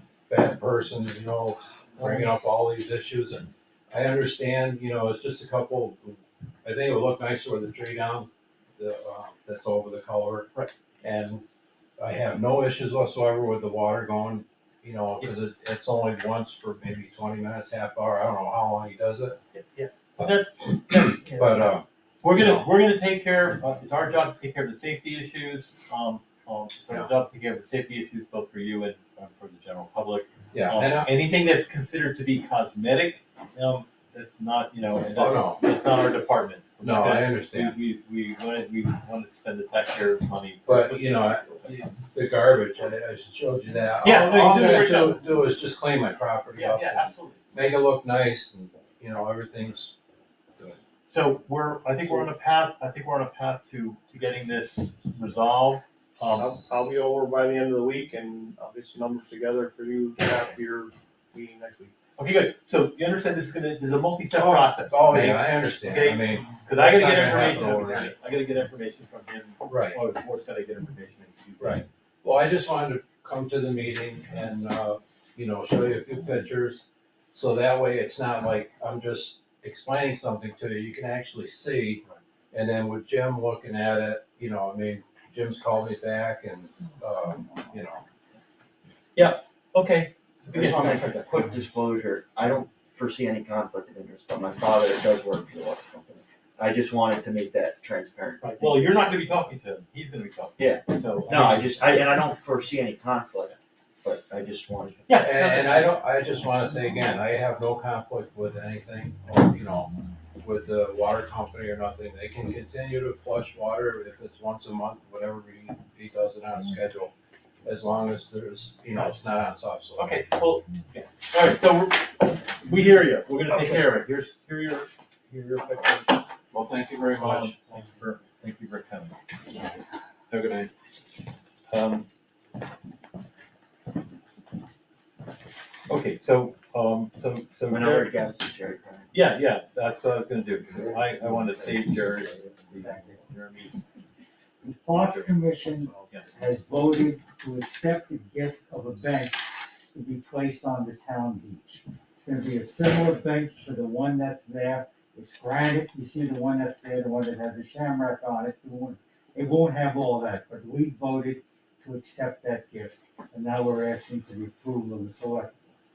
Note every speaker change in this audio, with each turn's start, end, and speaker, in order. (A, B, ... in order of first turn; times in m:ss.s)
0:00.3-0:10.5 A
0:02.0-0:02.3 B
0:11.0-0:11.4 A
0:12.0-0:19.4 A
0:19.5-0:41.6 B
0:20.9-0:22.7 A
0:30.5-0:31.1 A
0:35.1-0:35.6 A
0:36.8-0:37.8 A
0:40.6-0:50.0 A
0:44.0-0:45.2 B
0:46.5-0:47.4 B
0:51.1-0:56.5 B
0:56.4-1:01.9 C
1:02.2-1:11.8 B
1:04.3-1:08.1 A
1:09.7-1:10.0 A
1:11.6-1:28.0 A
1:29.2-1:31.3 B
1:30.5-1:39.1 D
1:38.4-1:41.7 B
1:40.6-1:45.1 D
1:45.1-1:45.9 B
1:45.2-1:57.1 A
1:57.6-2:00.2 A
2:00.0-2:06.2 B
2:03.5-2:03.8 A
2:06.5-2:07.5 A
2:07.1-2:09.2 B
2:10.3-2:10.7 A
2:11.7-2:12.0 B
2:15.9-2:18.2 B
2:17.7-2:19.1 D
2:19.1-2:23.8 B
2:22.8-2:23.2 E
2:24.6-2:45.5 E
2:24.8-2:26.3 B